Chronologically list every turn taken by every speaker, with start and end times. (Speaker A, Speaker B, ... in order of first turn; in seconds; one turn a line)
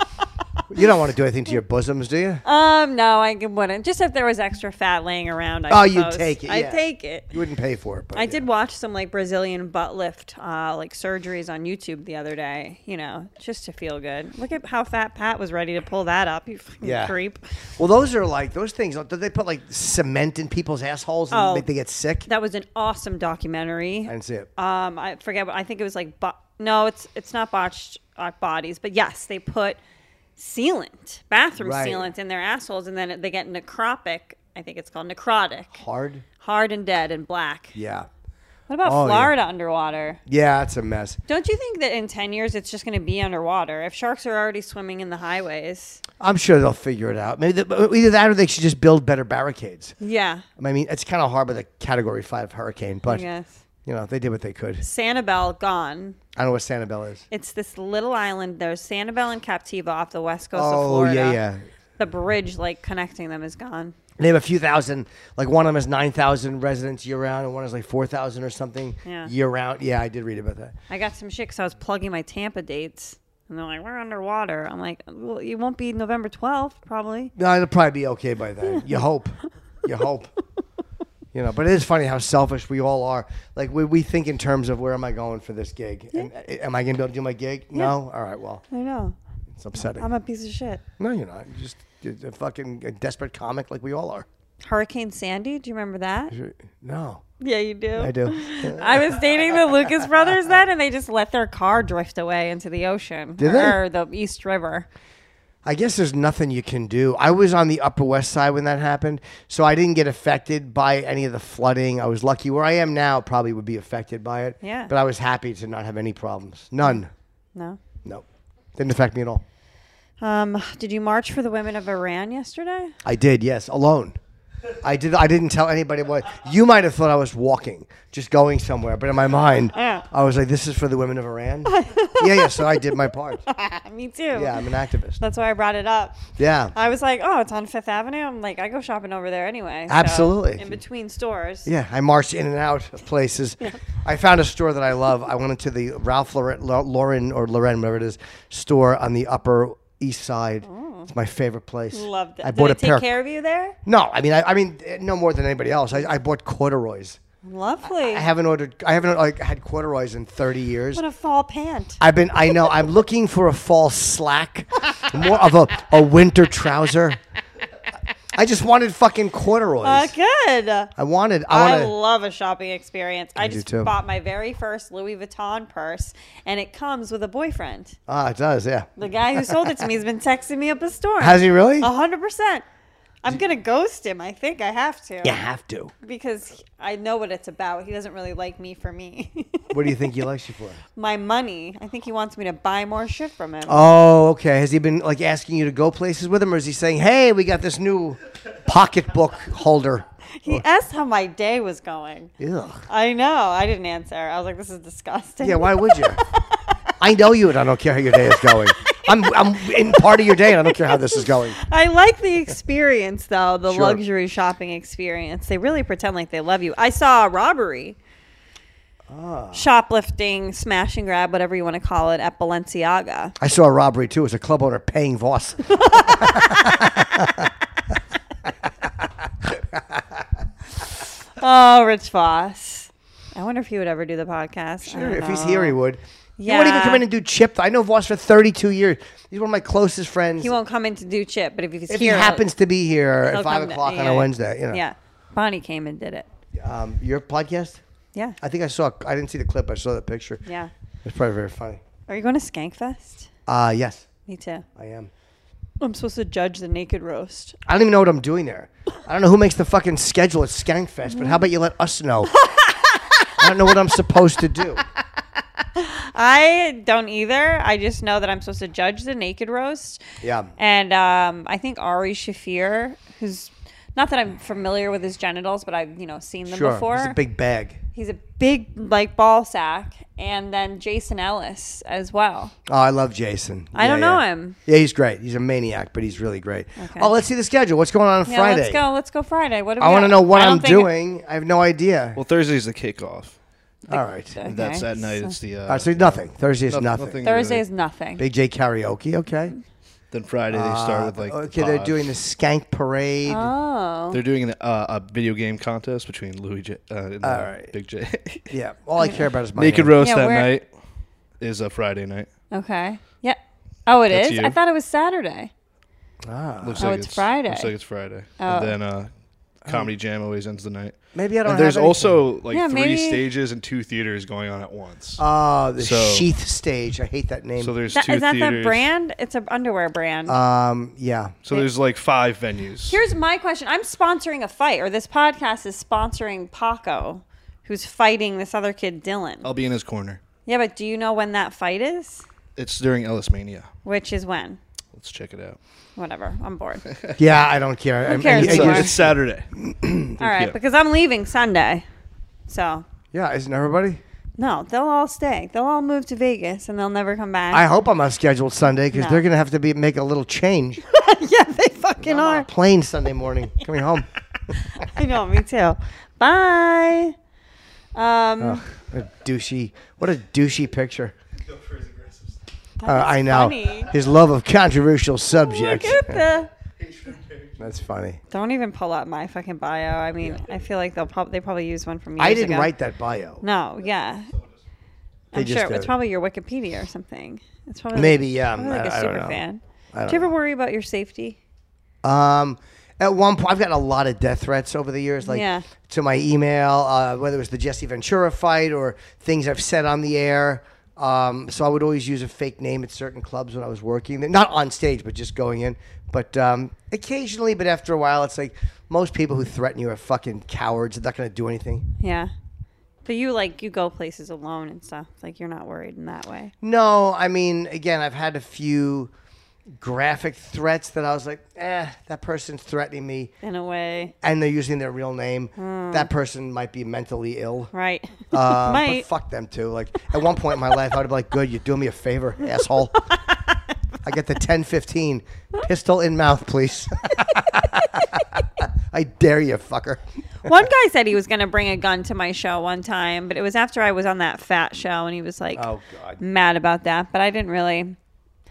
Speaker A: 0.7-2.4
Speaker B: 2.4-7.3
Speaker A: 5.7-8.4
Speaker B: 8.1-17.5
Speaker A: 16.8-17.1
Speaker A: 17.8-22.3
Speaker B: 21.3-21.7
Speaker B: 22.3-29.8
Speaker A: 24.1-24.5
Speaker B: 30.4-35.8
Speaker A: 31.6-32.1
Speaker A: 35.7-36.2
Speaker B: 36.4-37.8
Speaker A: 37.7-38.1
Speaker B: 38.7-40.2
Speaker A: 38.8-39.3
Speaker A: 40.3-41.2
Speaker B: 41.3-46.0
Speaker A: 46.2-50.0
Speaker B: 50.0-50.5
Speaker A: 50.6-53.3
Speaker B: 53.1-53.6
Speaker A: 53.9-54.8
Speaker B: 54.8-56.2
Speaker A: 56.4-57.2
Speaker B: 57.3-61.4
Speaker A: 60.5-61.6
Speaker B: 62.0-64.0
Speaker A: 64.2-70.8
Speaker B: 69.0-69.3
Speaker B: 70.9-77.3
Speaker A: 77.4-80.3
Speaker A: 81.3-88.6
Speaker B: 88.7-89.2
Speaker A: 89.6-90.1
Speaker B: 90.0-90.8
Speaker A: 91.0-94.3
Speaker B: 94.6-96.3
Speaker A: 96.3-97.2
Speaker B: 97.4-104.9
Speaker A: 98.0-99.2
Speaker A: 99.8-100.1
Speaker A: 103.4-103.8
Speaker A: 105.7-117.1
Speaker B: 114.6-114.9
Speaker B: 117.5-117.8
Speaker A: 118.0-119.4
Speaker B: 120.2-123.0
Speaker A: 123.0-124.2
Speaker A: 124.8-133.4
Speaker B: 129.7-130.1
Speaker B: 131.7-134.7
Speaker A: 134.3-135.2
Speaker B: 135.2-141.7
Speaker A: 136.4-136.8
Speaker A: 139.9-140.8
Speaker A: 141.7-153.1
Speaker B: 150.6-151.1
Speaker B: 151.9-153.8
Speaker A: 153.8-157.2
Speaker B: 157.4-158.3
Speaker A: 157.8-161.0
Speaker B: 160.9-162.0
Speaker A: 162.0-167.2
Speaker A: 168.3-170.1
Speaker B: 169.8-170.9
Speaker A: 171.0-171.9
Speaker B: 171.5-178.0
Speaker A: 173.4-173.9
Speaker A: 178.1-179.8
Speaker B: 179.0-182.7
Speaker A: 181.2-181.9
Speaker B: 183.2-185.4
Speaker A: 185.2-185.9
Speaker B: 186.0-190.1
Speaker A: 189.7-190.8
Speaker B: 191.0-193.9
Speaker A: 193.7-200.6
Speaker B: 200.4-202.3
Speaker A: 202.4-202.9
Speaker B: 202.9-206.8
Speaker A: 205.4-206.2
Speaker A: 207.0-211.6
Speaker B: 208.2-218.0
Speaker A: 213.7-214.0
Speaker A: 219.1-219.7
Speaker B: 219.5-223.3
Speaker A: 223.4-227.5
Speaker B: 225.8-226.8
Speaker A: 228.5-230.2
Speaker B: 231.4-235.8
Speaker A: 234.8-240.5
Speaker B: 236.4-237.0
Speaker B: 240.4-242.5
Speaker A: 241.9-244.8
Speaker B: 243.3-246.3
Speaker A: 246.6-247.8
Speaker A: 248.4-250.4
Speaker B: 250.5-250.7
Speaker A: 251.0-251.8
Speaker B: 252.1-253.3
Speaker A: 253.5-254.1
Speaker B: 254.3-254.7
Speaker A: 254.8-255.1
Speaker B: 255.8-257.6
Speaker A: 257.7-262.3
Speaker B: 261.1-261.4
Speaker B: 262.4-263.5
Speaker A: 263.4-264.8
Speaker B: 265.7-270.0
Speaker A: 270.2-270.5
Speaker B: 270.6-277.2
Speaker A: 276.5-277.8
Speaker B: 277.9-282.5
Speaker A: 282.7-288.8
Speaker B: 283.7-284.6
Speaker B: 286.8-287.1
Speaker B: 288.3-290.9
Speaker A: 289.8-292.2
Speaker C: 292.1-293.4
Speaker A: 293.9-294.4
Speaker B: 293.9-295.4
Speaker C: 294.4-297.6
Speaker A: 295.7-297.2
Speaker B: 297.2-298.2
Speaker A: 298.2-299.6
Speaker C: 300.1-302.0
Speaker A: 300.5-303.5
Speaker B: 303.3-304.2
Speaker C: 304.1-308.5
Speaker A: 307.2-307.7
Speaker A: 308.5-309.9
Speaker C: 309.6-310.7
Speaker B: 310.0-310.5
Speaker C: 311.4-312.3
Speaker B: 312.5-315.5
Speaker C: 314.1-314.6
Speaker A: 316.2-316.9
Speaker C: 316.6-319.1
Speaker B: 316.8-317.7
Speaker B: 318.4-318.7
Speaker C: 319.6-325.2
Speaker A: 321.1-322.2
Speaker B: 322.5-323.2
Speaker A: 325.2-327.7
Speaker C: 325.8-326.3
Speaker C: 327.6-328.9
Speaker B: 327.9-330.4
Speaker A: 330.3-331.4
Speaker C: 331.4-333.0
Speaker B: 332.9-339.5
Speaker C: 339.4-340.2
Speaker B: 340.5-342.2
Speaker C: 342.6-343.7
Speaker B: 343.9-344.6
Speaker C: 344.9-345.6
Speaker B: 346.0-346.9
Speaker C: 346.9-347.2
Speaker A: 347.2-350.2
Speaker B: 348.1-348.9
Speaker C: 348.2-349.5
Speaker B: 350.2-351.9
Speaker C: 350.2-350.6
Speaker B: 352.5-352.9
Speaker A: 353.1-354.0
Speaker B: 354.4-357.6
Speaker A: 357.5-360.8
Speaker B: 358.9-359.2
Speaker B: 360.9-362.5
Speaker A: 362.0-364.1
Speaker B: 364.6-367.1
Speaker B: 367.9-368.6
Speaker A: 368.4-371.1
Speaker B: 372.8-373.9
Speaker A: 372.9-376.2
Speaker B: 375.4-376.5
Speaker C: 376.8-377.6
Speaker A: 377.6-378.2
Speaker B: 378.3-382.7
Speaker A: 382.2-383.4
Speaker B: 383.4-384.3
Speaker A: 385.3-385.9
Speaker B: 385.3-391.4
Speaker A: 387.9-390.3
Speaker A: 392.0-411.9
Speaker B: 395.2-395.7
Speaker B: 412.0-412.3
Speaker B: 413.1-416.5
Speaker A: 416.6-419.1
Speaker A: 419.7-423.3
Speaker B: 423.4-424.1
Speaker A: 424.2-427.7
Speaker B: 425.6-426.1
Speaker B: 427.7-429.1
Speaker A: 428.3-433.0
Speaker B: 433.0-433.6
Speaker A: 434.0-440.5
Speaker B: 440.4-445.7
Speaker A: 445.6-446.2
Speaker B: 446.2-448.0